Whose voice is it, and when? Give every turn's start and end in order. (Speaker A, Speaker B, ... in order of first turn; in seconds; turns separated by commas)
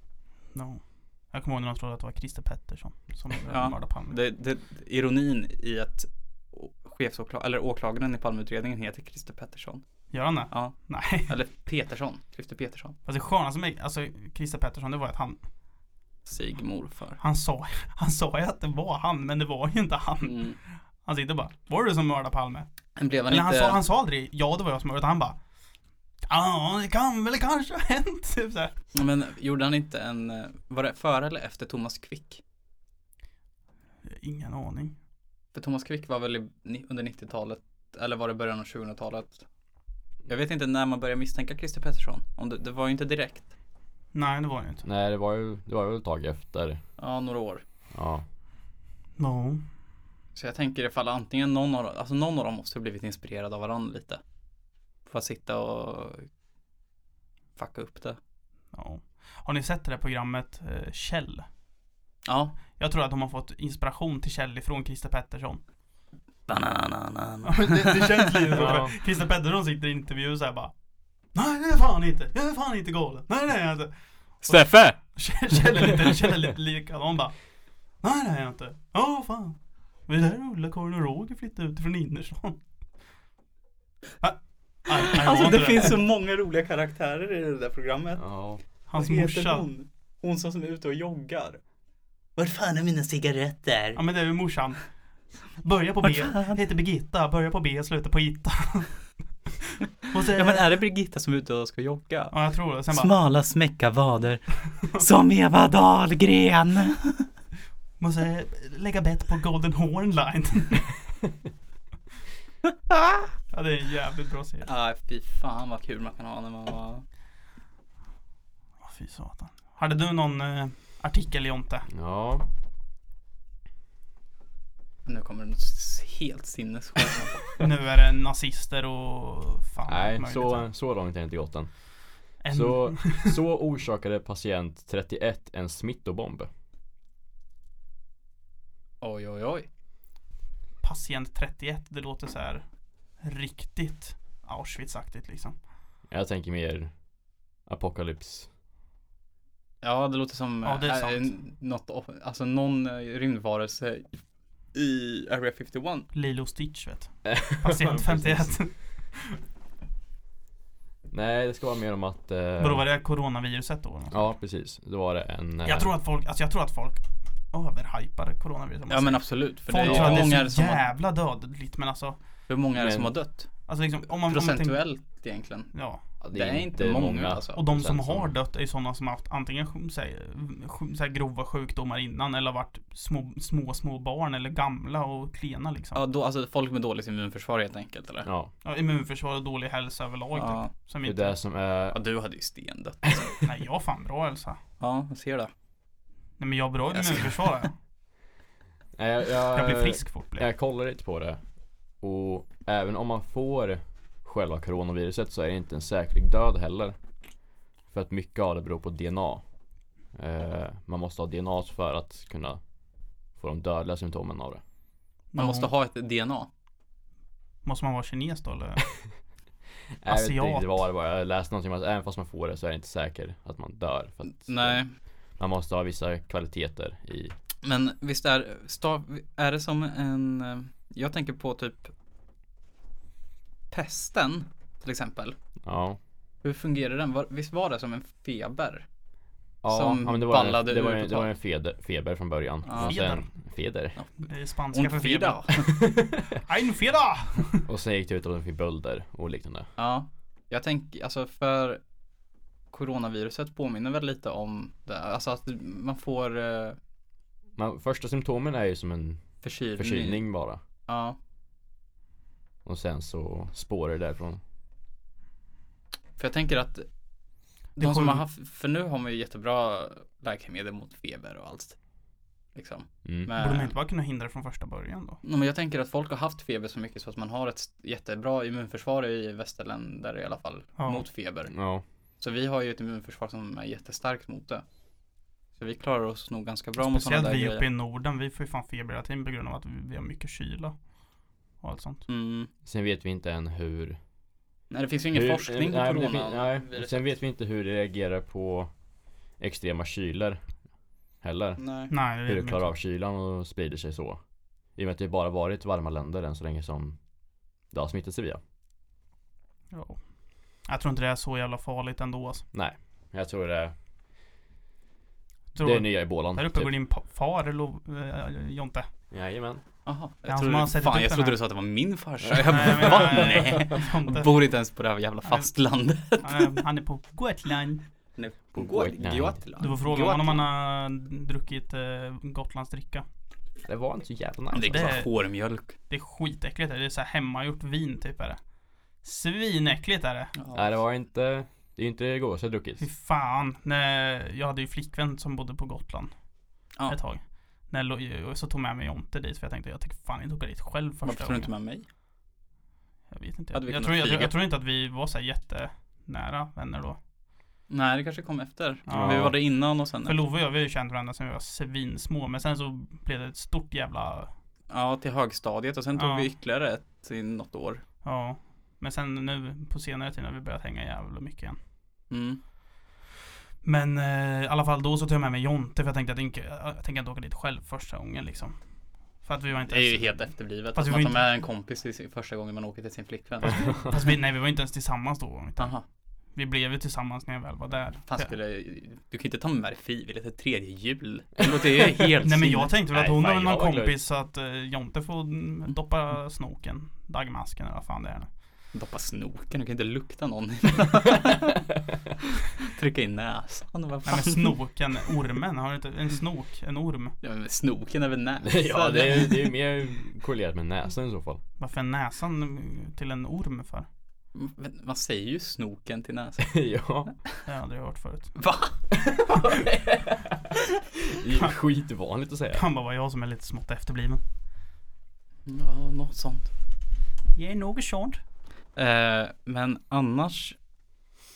Speaker A: 0.5-0.8, Speaker A: 1.3-4.2, Speaker B: 3.5-9.8, Speaker A: 10.1-11.3, Speaker B: 10.5-13.0, Speaker A: 13.1-15.4, Speaker B: 16.2-17.2, Speaker A: 17.2-22.7, Speaker B: 20.2-20.6, Speaker B: 23.0-23.8, Speaker A: 23.3-25.4, Speaker A: 26.3-28.7, Speaker B: 28.9-32.4, Speaker A: 34.0-35.0, Speaker B: 35.5-39.5, Speaker B: 40.2-43.5, Speaker A: 44.1-44.8, Speaker C: 44.8-46.8, Speaker B: 47.0-47.6, Speaker C: 47.9-48.2, Speaker A: 49.2-49.6, Speaker B: 50.3-54.2, Speaker B: 55.1-56.3, Speaker B: 57.6-58.2, Speaker A: 58.7-61.5, Speaker B: 62.2-62.6, Speaker A: 62.8-65.6, Speaker B: 66.5-68.7, Speaker A: 67.4-70.7, Speaker C: 68.5-68.9, Speaker A: 71.3-77.3, Speaker B: 74.4-75.0, Speaker A: 78.0-82.6, Speaker A: 84.2-86.0, Speaker B: 85.0-88.3, Speaker C: 88.2-88.6, Speaker A: 88.9-89.7, Speaker B: 88.9-91.6, Speaker B: 92.3-94.0, Speaker A: 94.0-94.8, Speaker A: 95.6-99.0, Speaker B: 96.0-96.6, Speaker A: 99.6-100.7, Speaker B: 100.3-107.3, Speaker A: 102.3-103.1, Speaker A: 104.7-105.0, Speaker A: 108.0-110.9, Speaker A: 113.5-114.7, Speaker B: 114.6-117.0, Speaker A: 118.8-121.9, Speaker C: 121.9-122.5, Speaker B: 125.0-127.6, Speaker A: 127.6-130.7, Speaker C: 129.9-131.7, Speaker A: 132.4-133.4, Speaker C: 132.5-136.5, Speaker B: 139.0-139.7, Speaker A: 140.8-142.6, Speaker A: 143.2-145.6, Speaker C: 146.1-146.9, Speaker C: 147.7-148.5, Speaker B: 149.8-154.2, Speaker A: 150.6-151.3, Speaker B: 154.7-156.1, Speaker A: 156.1-159.4, Speaker C: 157.2-158.6, Speaker C: 161.1-162.8, Speaker A: 162.6-164.3, Speaker C: 164.1-165.9, Speaker A: 165.6-172.2, Speaker B: 168.9-170.8, Speaker C: 169.8-170.3, Speaker B: 172.5-175.7, Speaker C: 172.8-173.1, Speaker A: 173.7-174.8, Speaker A: 175.7-176.0, Speaker C: 176.2-178.3, Speaker B: 176.3-177.6, Speaker A: 177.5-186.0, Speaker B: 185.9-188.3, Speaker C: 188.2-188.5, Speaker A: 188.6-191.4, Speaker B: 190.3-190.7, Speaker C: 191.0-192.0, Speaker B: 191.9-193.4, Speaker A: 193.4-194.6, Speaker B: 194.8-195.5, Speaker A: 196.4-197.7, Speaker B: 196.9-197.6, Speaker C: 198.9-201.4, Speaker A: 199.5-200.5, Speaker C: 202.0-207.0, Speaker C: 207.9-209.4, Speaker C: 210.1-212.6, Speaker C: 213.3-214.6, Speaker A: 215.3-215.7, Speaker B: 215.3-216.5, Speaker A: 217.6-218.8, Speaker C: 220.0-224.8, Speaker A: 220.1-220.8, Speaker B: 224.3-224.9, Speaker C: 225.4-227.3, Speaker B: 227.6-231.9, Speaker B: 233.7-235.4, Speaker C: 235.6-236.0, Speaker B: 236.4-238.8, Speaker C: 239.6-243.9, Speaker B: 239.7-241.3, Speaker B: 242.7-243.0, Speaker A: 242.8-243.3, Speaker A: 244.2-245.6, Speaker B: 244.7-245.7, Speaker C: 245.8-246.2, Speaker A: 246.4-247.6, Speaker C: 247.7-249.7, Speaker B: 249.8-251.8, Speaker B: 252.7-256.8, Speaker C: 257.6-259.2, Speaker B: 259.4-260.2, Speaker C: 259.8-260.6, Speaker B: 260.9-261.2, Speaker C: 262.6-264.4, Speaker B: 266.2-266.9, Speaker B: 267.8-271.8, Speaker A: 267.8-268.2, Speaker B: 272.5-273.7, Speaker A: 273.4-275.2, Speaker B: 275.2-281.5, Speaker A: 280.8-281.0, Speaker C: 281.5-281.8, Speaker B: 282.2-284.6, Speaker B: 285.6-287.6, Speaker A: 286.8-290.8, Speaker A: 291.6-292.1, Speaker B: 292.1-292.5, Speaker C: 292.6-294.0, Speaker B: 294.7-297.0, Speaker C: 295.1-298.7, Speaker C: 299.4-300.4, Speaker C: 301.2-301.6, Speaker B: 301.6-301.9, Speaker A: 301.9-302.7, Speaker C: 302.2-304.2, Speaker C: 304.7-307.0, Speaker C: 307.7-308.4, Speaker A: 309.7-310.0, Speaker A: 310.6-312.4, Speaker C: 312.5-313.7, Speaker A: 315.5-318.9, Speaker C: 315.6-316.7, Speaker C: 319.1-319.6, Speaker B: 319.9-326.6, Speaker A: 320.3-321.4, Speaker A: 322.4-324.4, Speaker C: 322.5-323.6, Speaker A: 325.2-325.5, Speaker A: 326.2-327.8, Speaker B: 328.2-330.4, Speaker C: 328.6-329.4, Speaker A: 329.6-333.0, Speaker C: 333.6-335.0, Speaker B: 334.5-335.7, Speaker A: 334.6-335.1, Speaker A: 335.9-338.4, Speaker A: 339.0-340.3, Speaker B: 340.4-340.7, Speaker C: 340.5-342.8, Speaker A: 342.8-346.1, Speaker A: 346.9-351.5, Speaker B: 351.0-351.8, Speaker A: 353.1-357.0, Speaker B: 353.5-354.3, Speaker B: 357.7-360.1, Speaker A: 358.9-359.4, Speaker C: 358.9-359.3, Speaker A: 360.0-364.3, Speaker B: 364.7-367.8, Speaker A: 365.9-366.3, Speaker A: 368.0-371.6, Speaker B: 372.1-372.4, Speaker A: 373.6-378.6, Speaker A: 379.2-381.2, Speaker B: 379.7-383.9, Speaker A: 383.4-385.7, Speaker B: 385.6-385.8, Speaker A: 386.3-388.3, Speaker B: 388.1-392.7, Speaker A: 392.2-398.3, Speaker C: 392.9-393.9, Speaker B: 398.7-401.7, Speaker B: 402.4-404.6, Speaker A: 404.0-407.1, Speaker B: 407.2-409.5, Speaker C: 408.4-411.4, Speaker A: 411.6-413.9, Speaker B: 414.3-416.6, Speaker C: 416.4-417.1, Speaker A: 417.4-418.4, Speaker B: 418.4-418.8, Speaker C: 418.9-420.5, Speaker C: 421.1-422.6, Speaker A: 422.5-424.2, Speaker B: 425.5-426.5, Speaker A: 427.3-428.2, Speaker B: 428.8-430.6